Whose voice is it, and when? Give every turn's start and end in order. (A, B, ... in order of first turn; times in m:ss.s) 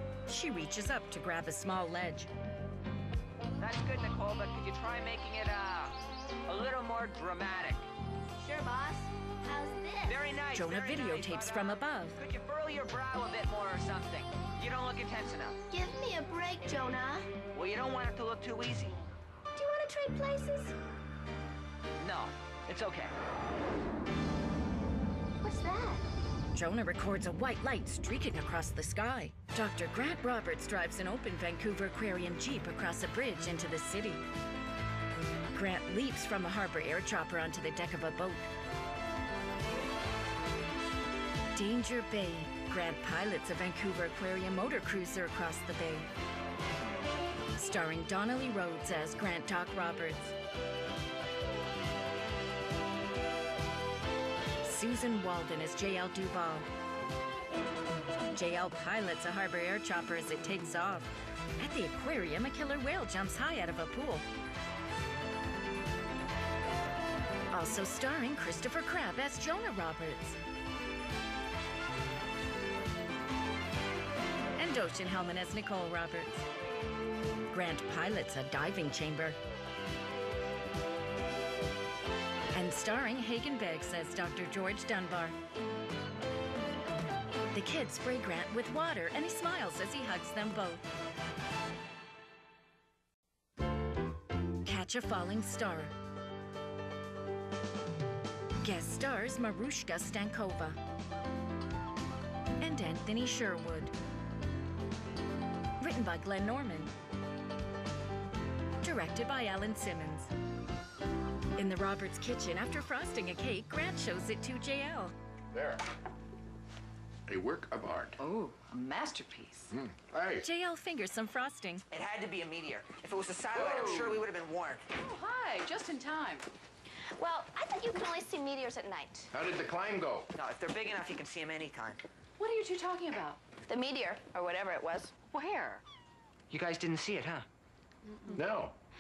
0:00.3-0:02.3 A
0:03.6-0:06.0 B
0:06.5-0:07.9 B
0:08.4-0:10.4 C
0:10.1-0:15.6 B
0:10.5-0:12.2 A
0:15.7-0:17.3 C
0:17.5-0:19.0 B
0:19.5-0:20.8 C
0:22.0-0:23.1 B
0:25.4-0:26.0 C
0:26.5-0:34.2 A
0:35.5-0:38.5 A
0:41.6-0:46.1 A
0:47.6-0:50.3 A
0:54.6-0:56.7 A
0:58.3-1:04.2 A
1:07.5-1:10.4 A
1:14.6-1:16.4 A
1:17.5-1:19.4 A
1:22.5-1:25.4 A
1:27.5-1:30.8 A
1:34.6-1:35.9 A
1:38.6-1:40.8 A
1:42.6-1:43.9 A
1:45.8-1:46.9 A
1:48.8-1:50.3 A
1:51.6-1:55.1 A
1:55.5-1:55.8 D
1:57.3-1:58.2 D
1:58.2-1:59.7 E
1:59.7-2:00.4 D
2:00.4-2:01.8 A
2:01.9-2:04.9 B
2:03.6-2:03.9 D
2:03.6-2:04.2 E
2:04.9-2:06.5 E
2:06.9-2:09.3 C
2:09.4-2:10.3 D
2:10.3-2:12.0 B
2:12.4-2:13.4 E
2:13.6-2:15.2 C
2:15.2-2:15.8 E
2:16.5-2:17.5 B
2:18.1-2:18.4 E
2:18.3-2:18.8 D